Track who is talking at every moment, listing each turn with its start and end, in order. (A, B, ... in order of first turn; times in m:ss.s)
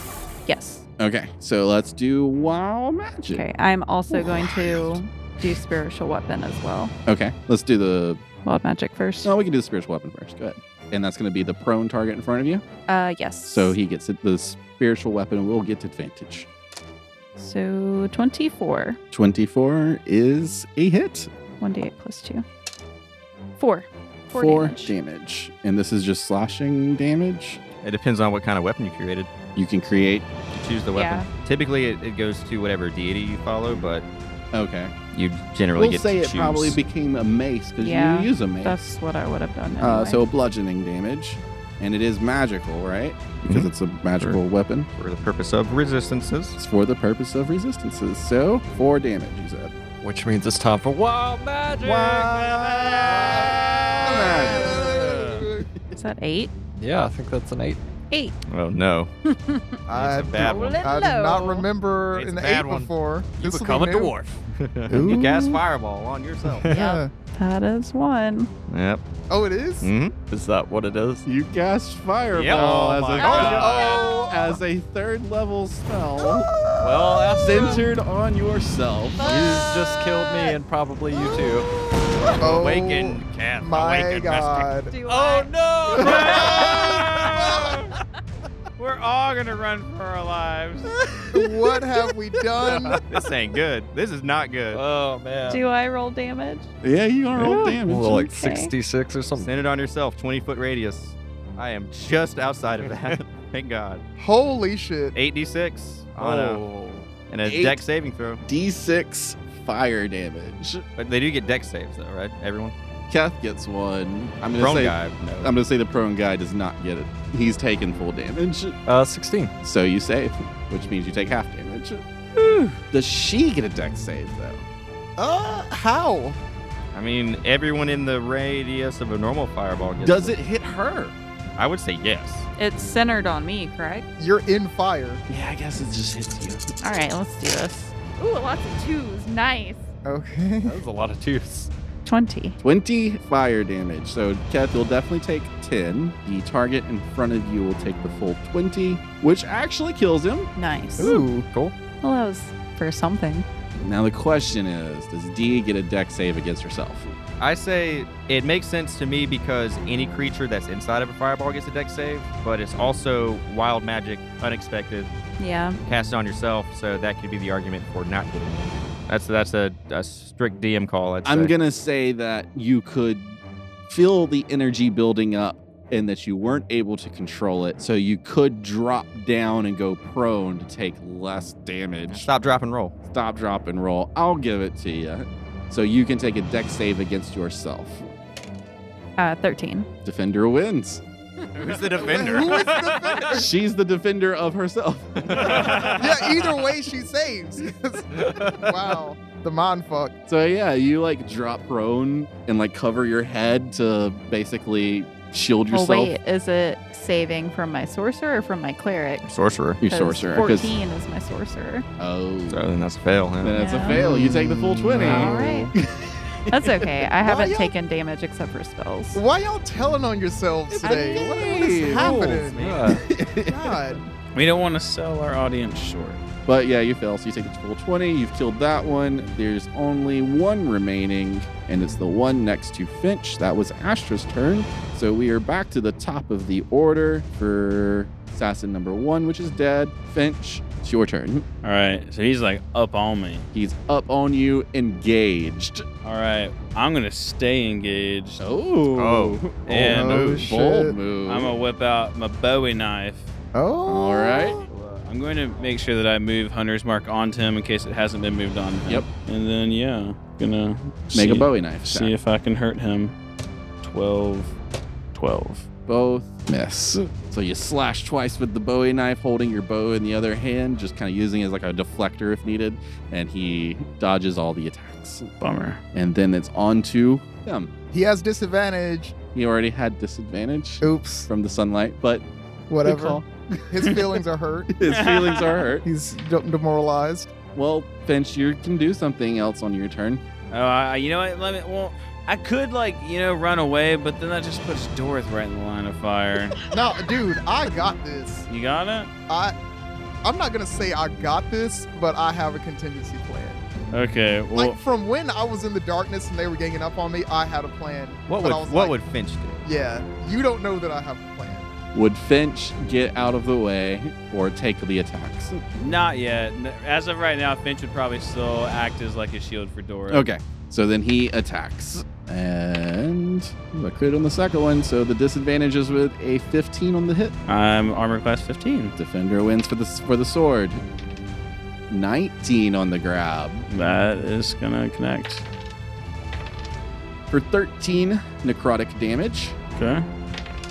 0:00.4-0:00.8 A
0:01.0-0:03.4 B
0:03.3-0:06.9 A
0:04.1-0:05.0 B
0:07.0-0:08.2 B
0:08.4-0:09.3 A
0:09.2-0:12.6 B
0:12.9-0:13.8 A
0:13.4-0:16.5 B
0:17.4-0:19.0 A
0:19.1-0:21.3 B
0:21.6-0:22.4 A
0:23.6-0:24.9 A
0:24.3-0:27.6 B
0:27.8-0:29.3 C
0:29.5-0:30.3 B
0:30.5-0:34.0 C
0:30.9-0:31.3 A
0:34.5-0:34.9 B
0:35.1-0:36.8 C
0:35.8-0:38.8 B
0:37.8-0:40.2 A
0:39.8-0:44.9 B
0:43.4-0:44.4 C
0:45.0-0:46.6 C
0:46.6-0:49.8 B
0:50.0-0:54.2 D
0:51.8-0:55.4 B
0:52.9-0:55.7 E
0:55.9-0:56.5 A
0:56.8-0:57.8 D
0:58.1-0:58.4 A
0:58.4-0:59.1 C
0:59.3-0:59.7 A
0:59.9-1:04.2 E
0:59.9-1:00.8 C
1:00.4-1:01.7 A
1:02.1-1:02.9 C
1:03.4-1:04.4 D
1:04.5-1:06.7 C
1:04.9-1:05.6 E
1:06.5-1:06.8 D
1:06.7-1:07.1 E
1:06.7-1:08.5 A
1:08.7-1:09.0 C
1:09.3-1:09.9 E
1:09.8-1:10.1 C
1:10.3-1:11.2 D
1:11.2-1:16.5 B
1:12.3-1:14.1 C
1:12.5-1:13.8 D
1:13.2-1:14.6 E
1:16.2-1:17.4 E
1:16.8-1:17.9 D
1:17.4-1:19.3 B
1:19.2-1:19.8 A
1:19.2-1:21.7 D
1:21.1-1:21.5 E
1:22.4-1:24.9 E
1:22.4-1:24.7 C
1:24.9-1:27.1 A
1:25.0-1:27.9 D
1:26.0-1:27.8 E
1:26.0-1:26.6 F
1:28.8-1:30.9 F
1:31.3-1:33.0 E
1:33.0-1:34.8 C
1:34.7-1:35.6 D
1:35.5-1:36.7 A
1:36.8-1:38.2 B
1:37.4-1:38.7 A
1:37.4-1:39.5 D
1:39.4-1:44.0 C
1:42.9-1:43.2 D
1:44.2-1:45.2 E
1:45.1-1:46.7 C
1:46.2-1:47.1 D
1:47.2-1:48.4 C
1:47.4-1:47.8 B
1:48.4-1:50.8 B
1:51.0-1:52.7 C
1:53.1-1:58.8 B
1:54.6-1:55.5 C
1:58.9-1:59.5 D
1:59.6-2:02.0 B
2:02.9-2:04.6 B
2:05.2-2:06.4 E
2:06.9-2:10.4 C
2:10.0-2:11.2 B
2:11.6-2:12.5 C
2:12.6-2:14.1 A
2:14.2-2:15.2 E
2:15.3-2:16.7 B
2:16.8-2:19.9 A
2:20.0-2:20.8 E
2:20.6-2:21.7 D
2:22.0-2:22.6 A
2:22.6-2:30.5 B
2:30.6-2:31.2 A
2:31.0-2:31.5 E
2:31.0-2:31.7 D
2:32.0-2:33.4 A
2:33.8-2:37.1 B
2:37.4-2:45.1 C
2:45.4-2:45.8 A
2:45.8-2:51.5 C
2:51.2-3:02.3 B
3:02.1-3:02.9 C
3:03.1-3:08.1 B
3:09.2-3:09.9 A
3:10.0-3:11.0 B
3:11.5-3:13.4 C
3:11.9-3:13.5 E
3:13.3-3:16.0 B
3:15.2-3:16.1 C
3:16.0-3:20.1 E
3:20.3-3:26.1 B
3:25.7-3:29.2 A
3:29.2-3:29.8 C
3:29.8-3:30.7 B
3:29.8-3:31.8 A
3:32.0-3:32.6 B
3:32.5-3:33.7 C
3:33.4-3:36.8 B
3:33.5-3:34.0 A
3:33.9-3:35.4 E
3:35.0-3:35.7 A
3:35.1-3:35.5 D
3:36.5-3:39.2 A
3:37.2-3:37.7 E
3:39.1-3:44.0 E
3:40.7-3:42.3 B
3:40.8-3:41.2 A
3:41.8-3:43.0 D
3:42.8-3:44.0 B
3:44.3-3:46.2 F
3:46.4-4:01.4 B
4:01.6-4:03.5 F
4:03.5-4:05.8 B
4:06.0-4:08.5 F
4:08.4-4:11.5 B
4:09.0-4:10.4 C
4:09.5-4:10.1 F
4:09.9-4:11.0 E
4:11.2-4:13.3 F
4:13.5-4:14.6 E
4:13.9-4:14.6 B
4:14.7-4:23.1 F
4:21.1-4:22.1 B
4:23.8-4:24.5 F
4:25.1-4:25.7 F
4:25.9-4:35.3 B
4:35.4-4:35.8 F
4:35.9-4:37.7 B
4:37.9-4:39.2 E
4:39.3-4:42.2 B
4:40.8-4:41.3 E
4:42.7-4:44.8 E
4:42.8-4:44.0 B
4:44.7-4:45.8 B
4:44.8-4:45.6 F
4:45.8-4:47.3 E
4:47.5-4:50.2 B
4:50.5-4:56.6 F
4:56.7-4:58.5 E
4:58.5-4:59.1 F
4:59.3-4:59.5 E
5:00.2-5:03.6 E
5:03.9-5:04.8 F
5:04.5-5:09.0 E
5:08.2-5:09.6 C
5:09.6-5:11.7 E
5:11.9-5:15.6 B
5:15.8-5:20.2 F
5:20.1-5:27.3 B
5:27.5-5:28.9 F
5:29.0-5:30.8 B
5:31.9-5:33.6 B
5:33.7-5:35.4 F
5:37.3-5:39.6 B
5:39.7-5:40.0 F